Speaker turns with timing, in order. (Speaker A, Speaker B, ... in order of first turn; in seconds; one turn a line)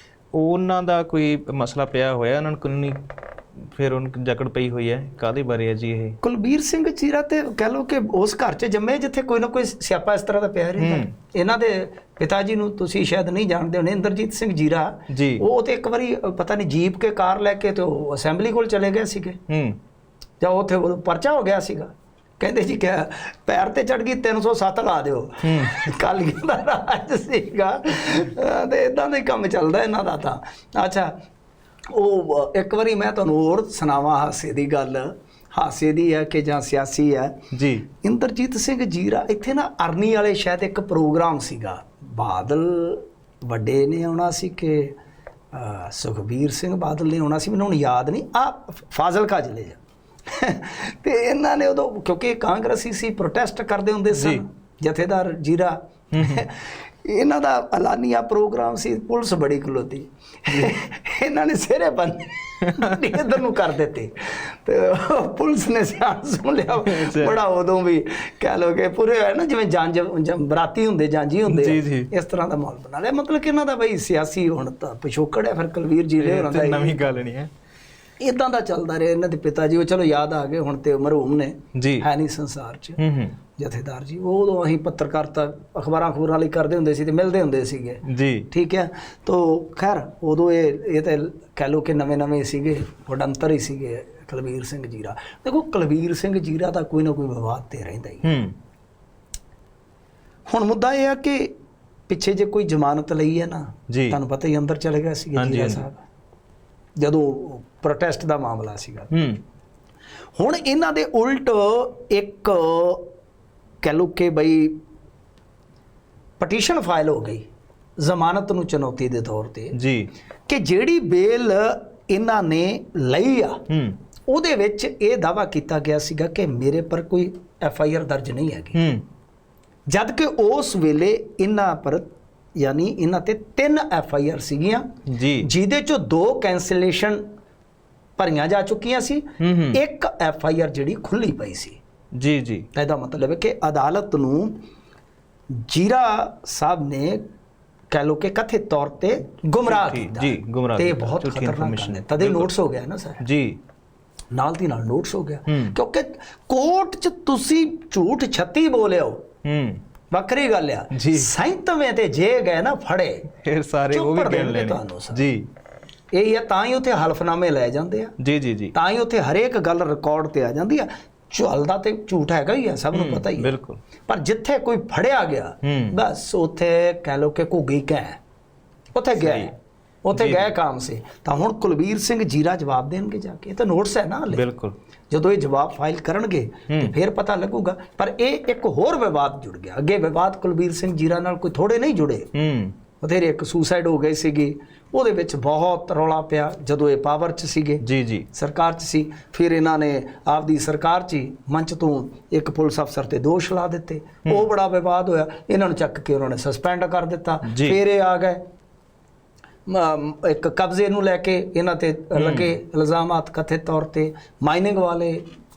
Speaker A: 0.3-3.0
Speaker A: 3.6-6.2
Speaker B: 6.2-19.4
Speaker A: 10.8-11.1
Speaker A: 15.1-15.4
Speaker A: 19.5-19.8
Speaker B: 20.4-31.1
Speaker A: 25.4-25.8
Speaker B: 31.9-37.4
Speaker A: 37.5-37.9
Speaker B: 38.0-45.0
Speaker B: 45.5-77.0
Speaker A: 54.1-54.4
Speaker A: 56.1-56.4
Speaker A: 62.6-63.0
Speaker A: 66.8-67.4
Speaker A: 71.5-72.1
Speaker A: 76.2-77.5
Speaker B: 78.2-83.0
Speaker A: 81.7-82.1
Speaker A: 83.0-83.3
Speaker B: 83.6-98.3
Speaker A: 88.0-88.5
Speaker A: 98.2-98.5
Speaker B: 100.5-101.5
Speaker B: 102.1-106.0
Speaker A: 103.9-104.2
Speaker A: 105.3-105.8
Speaker B: 107.0-109.1
Speaker A: 109.1-109.4
Speaker B: 110.3-113.1
Speaker B: 113.8-114.8
Speaker B: 116.4-117.4
Speaker B: 118.0-119.8
Speaker A: 119.7-120.1
Speaker B: 120.5-123.6
Speaker A: 123.7-124.0
Speaker B: 124.3-128.8
Speaker A: 128.7-129.0
Speaker B: 129.9-134.9
Speaker A: 135.1-135.5
Speaker B: 135.4-137.2
Speaker B: 138.2-141.8
Speaker A: 139.4-139.8
Speaker A: 142.1-142.7
Speaker B: 142.7-144.6
Speaker B: 145.5-147.2
Speaker B: 147.9-153.2
Speaker A: 149.7-152.5
Speaker A: 153.2-153.6
Speaker B: 154.3-159.2
Speaker A: 155.5-155.7
Speaker A: 159.4-159.8
Speaker B: 160.1-163.3
Speaker A: 160.9-161.3
Speaker A: 163.4-165.5
Speaker B: 163.9-165.3
Speaker B: 166.1-168.1
Speaker A: 168.2-168.7
Speaker B: 168.7-173.5
Speaker A: 172.9-173.8
Speaker B: 174.1-178.2
Speaker A: 175.6-175.9
Speaker B: 178.9-179.5
Speaker A: 179.1-179.5
Speaker B: 180.0-184.4
Speaker A: 180.1-180.5
Speaker A: 184.3-184.8
Speaker B: 185.1-192.3
Speaker A: 192.3-192.7
Speaker B: 193.0-197.8
Speaker A: 197.8-198.3
Speaker B: 198.3-208.4
Speaker A: 207.4-207.8
Speaker B: 209.7-215.2
Speaker A: 212.2-212.5